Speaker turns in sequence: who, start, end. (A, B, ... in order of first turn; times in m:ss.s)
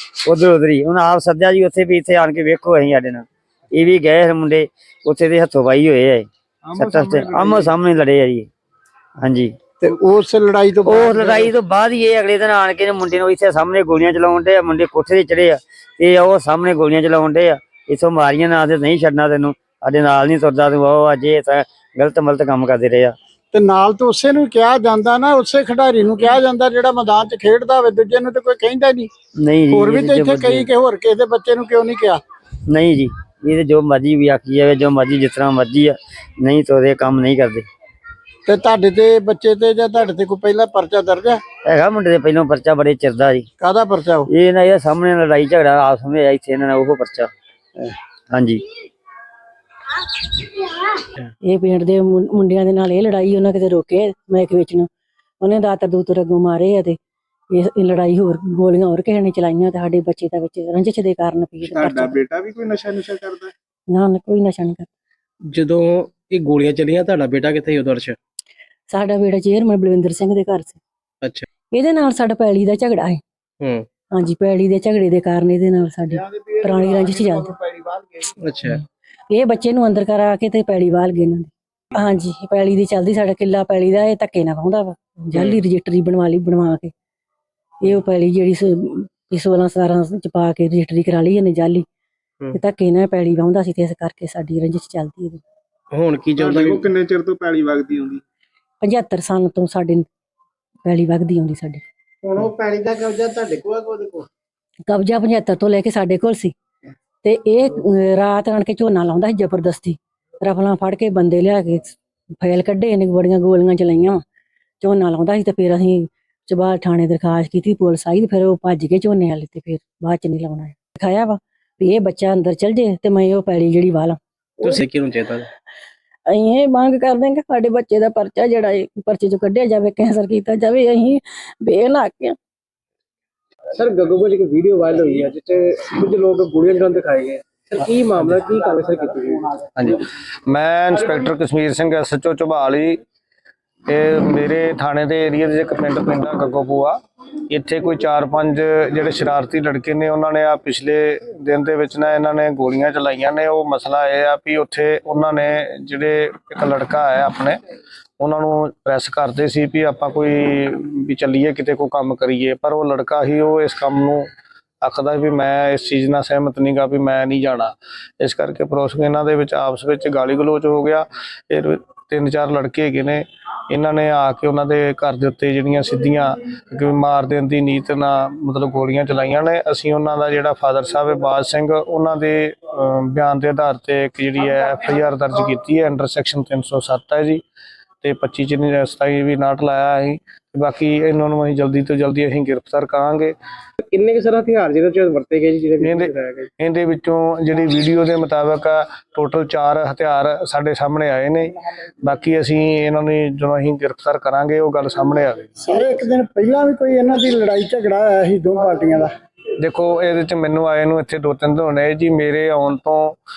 0:00.2-0:08.5 A
0:06.6-0:07.7 B
0:09.2-0:09.6 A
0:09.8-0:11.5 C
0:10.8-0:23.1 A
0:23.5-0:29.1 C
0:29.4-0:30.7 A
0:29.7-0:32.2 C
0:32.7-0:37.6 A
0:38.4-0:41.4 C
0:41.6-0:43.5 A
0:43.6-0:44.3 C
0:44.3-0:47.3 A
0:48.3-0:48.6 A
0:51.4-0:54.9 D
0:55.4-0:57.0 D
0:57.5-1:02.2 D
1:01.6-1:03.5 B
1:03.9-1:04.9 D
1:05.5-1:08.2 E
1:08.9-1:10.8 D
1:11.7-1:13.2 D
1:13.6-1:13.8 E
1:14.1-1:17.5 D
1:16.3-1:18.2 B
1:18.4-1:18.8 E
1:19.3-1:26.9 D
1:25.3-1:25.6 E
1:27.8-1:31.8 D
1:32.5-1:35.4 D
1:35.9-1:36.9 E
1:36.4-1:38.2 B
1:38.8-1:40.0 D
1:40.8-1:41.8 D
1:44.9-1:46.5 D
1:47.2-1:54.2 D
1:54.8-2:04.8 D
2:04.6-2:05.5 E
2:06.3-2:12.4 D
2:13.7-2:19.6 E
2:19.8-2:23.0 F
2:23.9-2:26.9 F
2:27.5-2:37.6 F
2:38.2-2:44.2 F
2:44.8-3:07.4 F
3:08.0-3:13.3 F
3:13.8-3:16.5 E
3:15.8-3:25.5 F
3:25.6-3:29.1 C
3:29.6-3:33.2 F